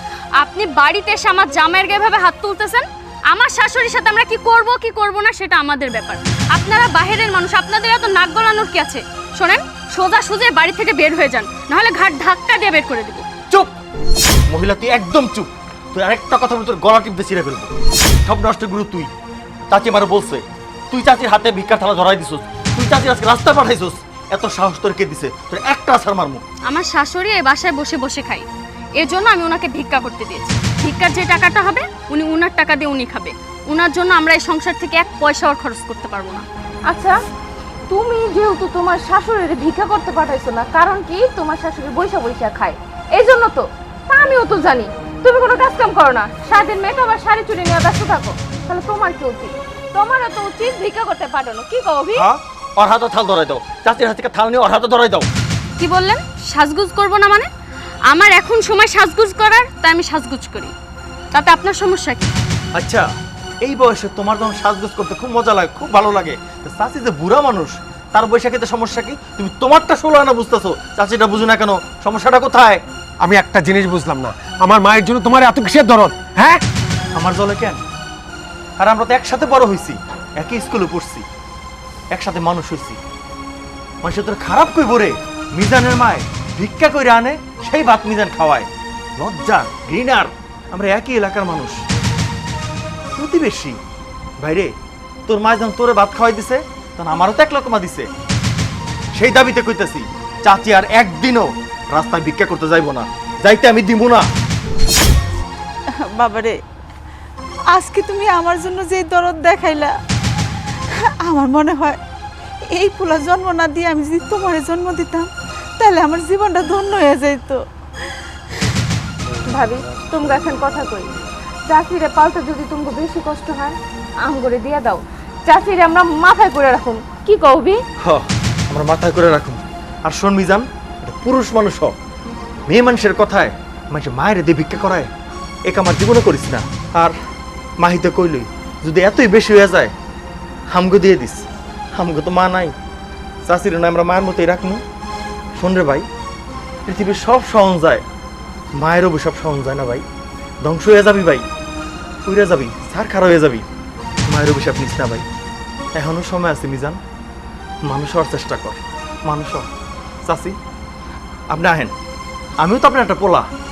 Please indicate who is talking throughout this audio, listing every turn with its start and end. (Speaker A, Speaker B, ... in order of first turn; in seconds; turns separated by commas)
Speaker A: 0.4-13.2, Speaker B: 14.5-17.7, Speaker B: 18.2-19.1, Speaker B: 19.7-26.4, Speaker A: 26.7-28.4, Speaker A: 29.0-36.5, Speaker C: 36.9-37.1, Speaker C: 37.9-52.2, Speaker B: 52.1-55.3, Speaker A: 55.8-57.5, Speaker A: 58.1-60.7, Speaker A: 61.3-62.3, Speaker B: 62.8-63.0, Speaker B: 63.6-72.8, Speaker D: 73.2-76.6, Speaker B: 77.1-77.8, Speaker B: 78.8-81.2, Speaker B: 82.1-83.0, Speaker B: 84.0-91.8, Speaker B: 93.2-93.8, Speaker B: 94.4-94.7, Speaker B: 95.3-98.1, Speaker B: 99.1-104.3, Speaker E: 106.2-106.5, Speaker E: 107.7-109.9, Speaker E: 111.2-112.0, Speaker E: 112.7-115.3, Speaker E: 115.8-117.6, Speaker C: 119.4-121.1, Speaker C: 121.7-127.8, Speaker B: 128.0-131.9, Speaker B: 132.7-135.1, Speaker B: 135.6-137.1, Speaker B: 137.8-139.9, Speaker B: 140.7-142.7, Speaker B: 143.4-144.8, Speaker B: 145.6-146.1, Speaker B: 146.9-148.0, Speaker B: 148.7-150.0, Speaker B: 150.6-151.4, Speaker B: 152.2-153.7, Speaker B: 154.2-155.2, Speaker B: 155.9-157.0, Speaker B: 157.8-159.7, Speaker B: 160.2-160.6, Speaker B: 161.5-161.9, Speaker B: 162.6-163.5